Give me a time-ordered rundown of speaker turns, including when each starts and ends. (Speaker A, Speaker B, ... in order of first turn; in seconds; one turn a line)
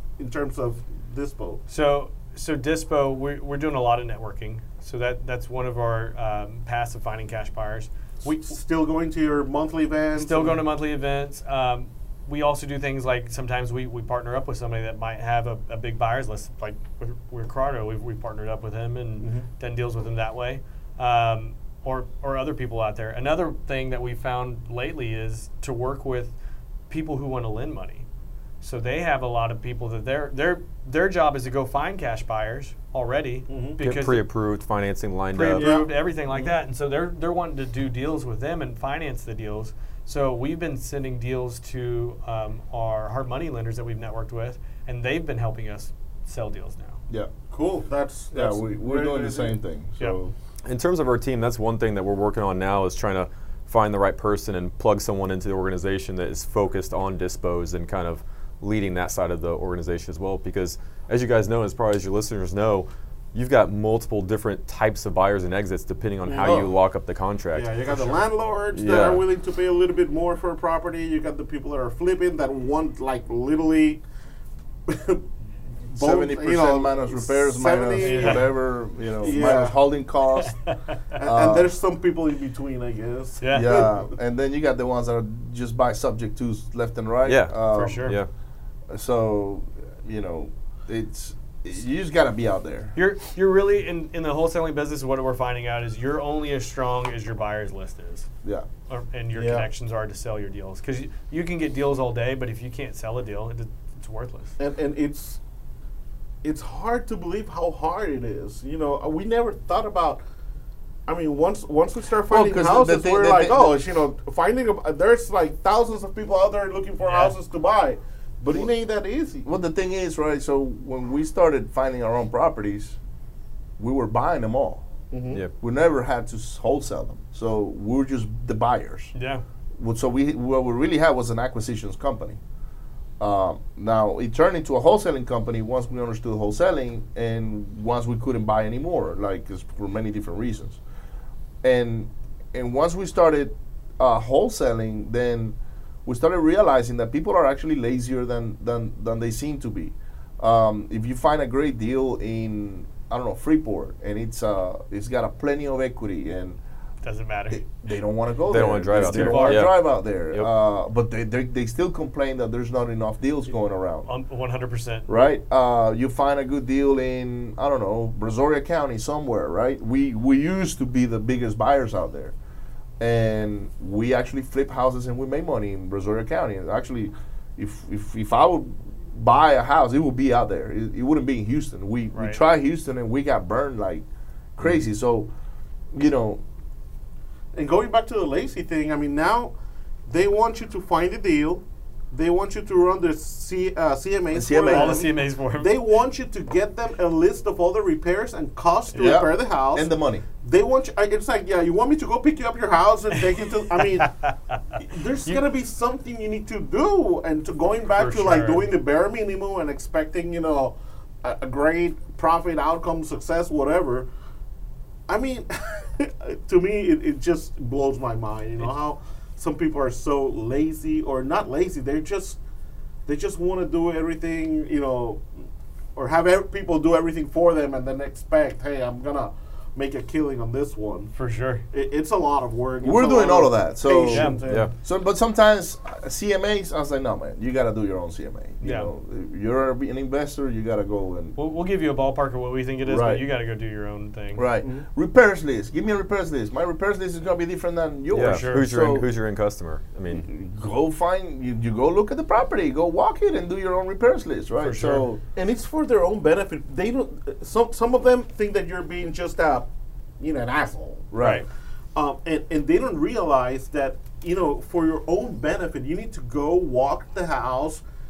Speaker A: 0.2-1.6
Speaker B: 1.7-8.5
Speaker A: 8.2-10.6
Speaker B: 10.2-26.3
Speaker A: 19.2-19.4
Speaker B: 26.9-28.1
Speaker B: 28.6-34.3
Speaker A: 33.5-33.8
Speaker C: 33.8-35.7
Speaker B: 35.3-47.0
Speaker A: 35.5-35.9
Speaker A: 47.5-49.6
Speaker D: 48.3-50.3
Speaker C: 50.6-67.9
Speaker A: 66.2-66.7
Speaker A: 67.5-74.0
Speaker C: 68.7-69.3
Speaker A: 74.9-75.2
Speaker D: 75.9-80.6
Speaker A: 75.9-78.5
Speaker B: 78.0-78.5
Speaker A: 79.2-79.8
Speaker B: 80.4-81.0
Speaker A: 81.2-84.0
Speaker D: 81.2-81.7
Speaker B: 83.4-83.9
Speaker D: 83.5-88.2
Speaker C: 87.2-88.3
Speaker B: 87.7-88.2
Speaker D: 88.9-92.9
Speaker B: 93.0-98.3
Speaker B: 98.9-104.5
Speaker A: 99.3-99.7
Speaker A: 104.6-105.4
Speaker A: 106.4-110.2
Speaker A: 111.1-119.5
Speaker D: 112.3-113.8
Speaker B: 117.0-117.3
Speaker D: 119.4-123.0
Speaker D: 123.8-124.9
Speaker A: 125.1-125.4
Speaker D: 125.6-129.1
Speaker B: 129.1-129.4
Speaker D: 129.8-132.4
Speaker D: 133.2-140.8
Speaker D: 141.6-156.6
Speaker B: 157.0-157.6
Speaker D: 157.5-164.1
Speaker C: 158.5-160.5
Speaker B: 158.9-159.7
Speaker B: 164.1-165.1
Speaker D: 165.1-172.3
Speaker D: 173.0-184.1
Speaker B: 182.1-182.4
Speaker D: 184.6-185.3
Speaker D: 185.9-186.4
Speaker A: 187.5-189.5
Speaker A: 190.1-199.9
Speaker D: 194.3-195.0
Speaker B: 194.7-195.7
Speaker D: 198.9-200.2
Speaker A: 200.4-204.1
Speaker B: 204.0-204.6
Speaker A: 204.8-214.1
Speaker B: 207.9-208.7
Speaker A: 215.1-222.4
Speaker A: 223.1-225.2
Speaker A: 225.9-231.1
Speaker B: 231.1-231.6
Speaker A: 231.7-234.7
Speaker D: 232.8-241.3
Speaker B: 234.1-234.4
Speaker B: 238.6-238.9
Speaker B: 241.3-244.4
Speaker D: 242.8-243.2
Speaker D: 244.3-249.1
Speaker C: 248.1-250.2
Speaker B: 248.2-248.7
Speaker D: 250.1-255.2
Speaker B: 254.6-255.1
Speaker A: 255.3-259.7
Speaker A: 260.2-261.1
Speaker D: 261.1-261.4
Speaker B: 261.2-261.4
Speaker A: 261.9-267.8